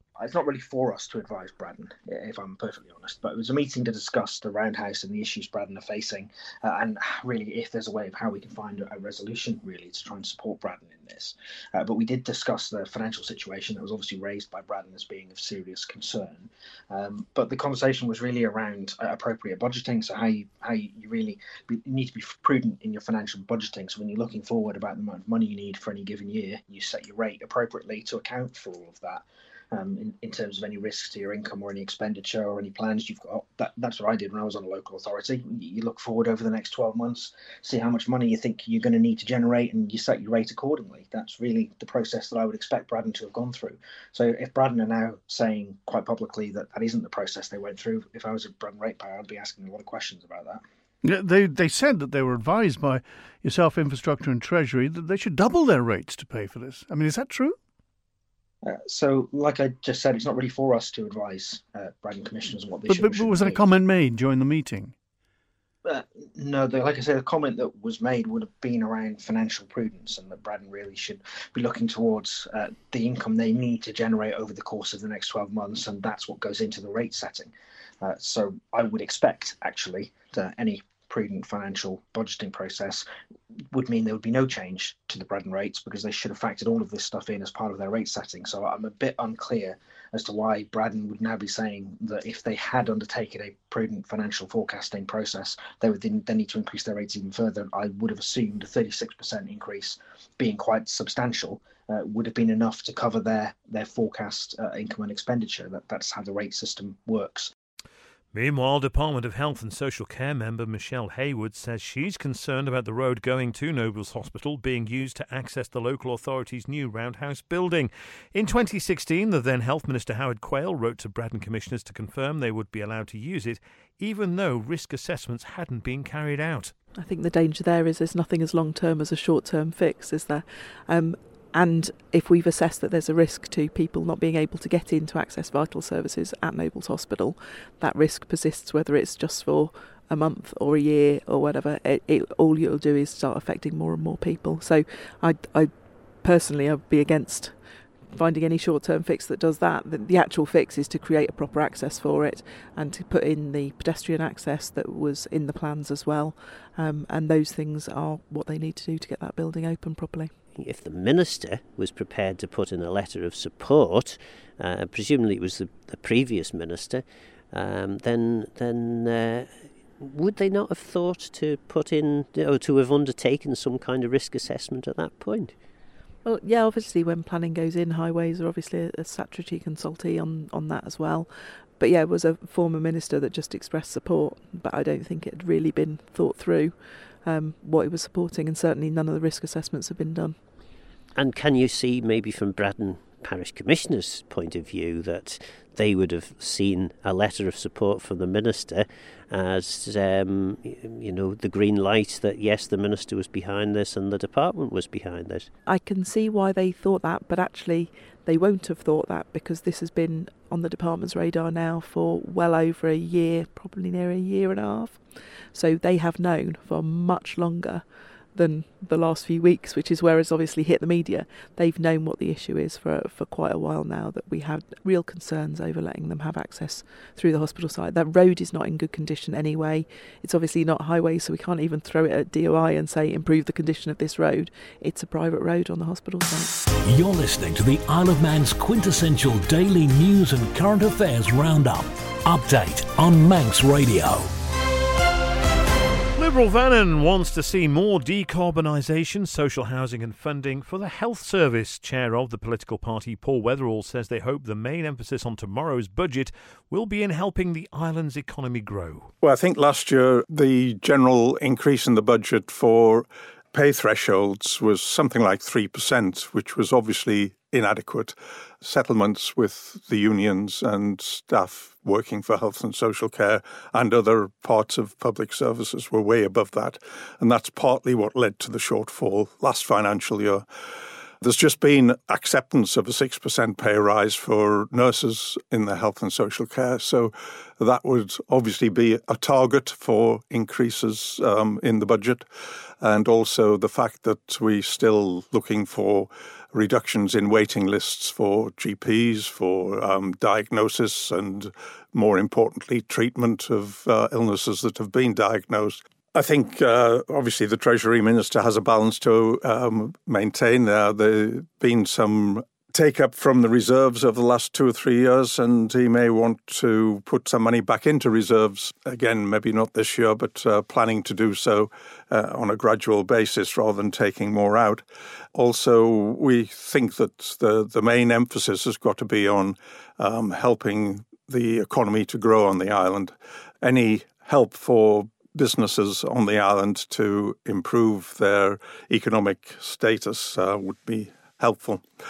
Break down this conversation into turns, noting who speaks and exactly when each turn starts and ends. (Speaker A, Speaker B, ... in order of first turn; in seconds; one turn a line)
Speaker A: 0.2-50.6
Speaker B: 51.0-57.6
Speaker A: 58.6-63.7
Speaker B: 62.9-64.9
Speaker A: 65.8-83.0
Speaker A: 83.7-107.5
Speaker C: 108.3-126.7
Speaker D: 127.0-160.3
Speaker E: 160.5-175.5
Speaker D: 176.2-190.4
Speaker E: 191.1-205.5
Speaker D: 205.7-236.6
Speaker F: 236.8-244.3
Speaker C: 246.2-259.1
Speaker G: 259.2-280.4
Speaker G: 281.2-292.3
Speaker G: 292.8-341.8